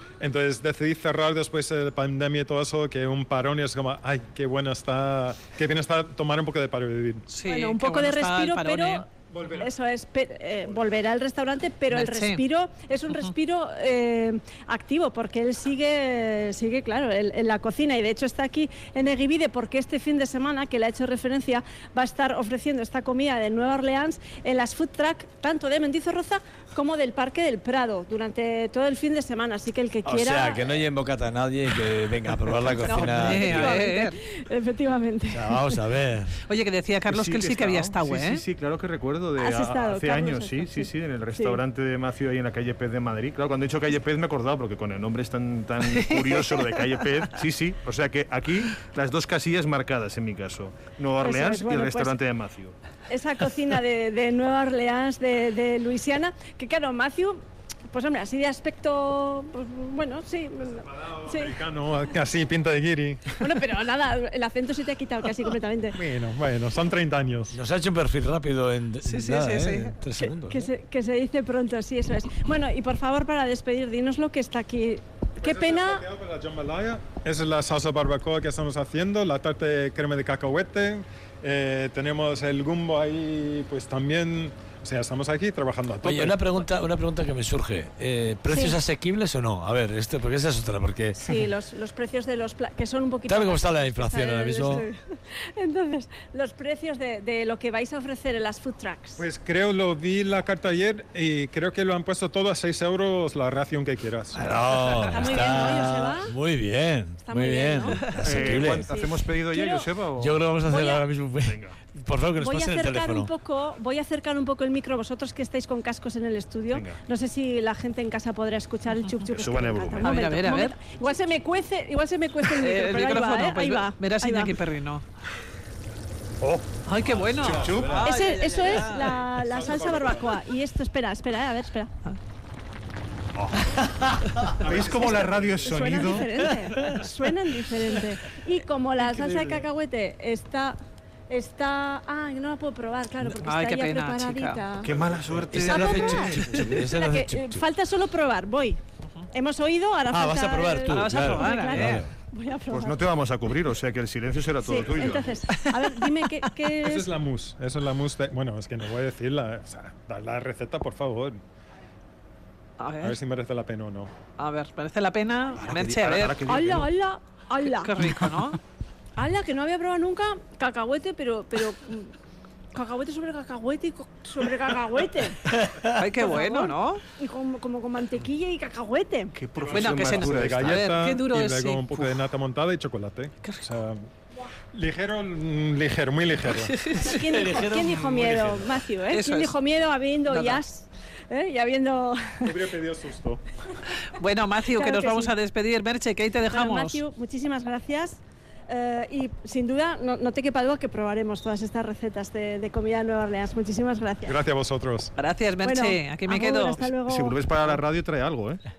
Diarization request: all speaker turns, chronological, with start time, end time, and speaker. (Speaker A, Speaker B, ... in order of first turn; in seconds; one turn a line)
Speaker A: 0.2-7.2
Speaker B: 7.3-9.0
Speaker C: 7.4-30.7
Speaker A: 9.3-9.7
Speaker B: 11.9-12.4
Speaker D: 30.0-33.8
Speaker C: 32.8-35.8
Speaker B: 32.8-34.2
Speaker D: 35.3-36.4
Speaker B: 36.5-38.4
Speaker E: 37.1-52.8
Speaker C: 39.4-41.6
Speaker B: 45.9-46.9
Speaker C: 51.2-52.1
Speaker C: 53.1-57.4
Speaker C: 57.9-61.5
Speaker A: 60.8-63.4
Speaker C: 63.4-66.0
Speaker A: 65.9-67.5
Speaker D: 67.5-70.7
Speaker B: 69.0-69.9
Speaker C: 70.1-76.0
Speaker A: 75.4-86.4
Speaker D: 86.0-91.2
Speaker C: 88.5-88.8
Speaker C: 91.2-99.2
Speaker D: 93.3-94.8
Speaker A: 99.2-104.5
Speaker D: 104.3-108.9
Speaker C: 105.0-106.3
Speaker C: 107.2-109.9
Speaker E: 108.2-110.4
Speaker D: 110.2-113.3
Speaker C: 110.7-111.0
Speaker E: 111.4-111.8
Speaker C: 112.4-124.6
Speaker E: 116.7-117.0
Speaker E: 119.3-120.1
Speaker B: 120.0-120.8
Speaker B: 122.4-125.0
Speaker E: 126.4-128.1
Speaker B: 126.8-129.1
Speaker C: 127.7-131.9
Speaker A: 129.3-130.3
Speaker E: 133.3-133.7
Speaker D: 133.8-134.7
Speaker E: 134.6-136.3
Speaker A: 134.7-135.5
Speaker C: 134.9-140.8
Speaker D: 136.4-136.9
Speaker D: 139.1-139.6
Speaker C: 141.3-145.0
Speaker B: 143.2-144.6
Speaker E: 144.8-146.9
Speaker D: 145.5-147.6
Speaker C: 145.5-148.8
Speaker C: 149.3-153.0
Speaker D: 150.1-152.1
Speaker B: 150.9-152.0
Speaker E: 152.7-155.4
Speaker C: 154.6-157.1
Speaker B: 155.6-156.2
Speaker A: 156.8-161.4
Speaker B: 162.8-163.2
Speaker A: 163.0-164.1
Speaker B: 164.4-166.4
Speaker E: 165.6-166.9
Speaker C: 166.4-167.9
Speaker B: 167.6-168.6
Speaker C: 169.2-172.1
Speaker C: 172.7-175.5
Speaker D: 175.5-176.0
Speaker B: 175.9-177.0
Speaker C: 176.2-179.3
Speaker E: 179.3-180.9
Speaker A: 179.6-184.1
Speaker B: 179.7-182.2
Speaker B: 183.4-183.7
Speaker A: 184.7-186.8
Speaker B: 186.6-187.2
Speaker C: 186.9-192.5
Speaker D: 187.5-188.1
Speaker A: 188.1-188.7
Speaker B: 189.1-189.5
Speaker B: 190.3-190.6
Speaker A: 192.4-193.4
Speaker B: 194.1-197.0
Speaker C: 194.7-195.3
Speaker C: 196.4-204.4
Speaker A: 204.2-205.1
Speaker B: 205.2-206.9
Speaker C: 205.6-207.4
Speaker E: 207.0-208.6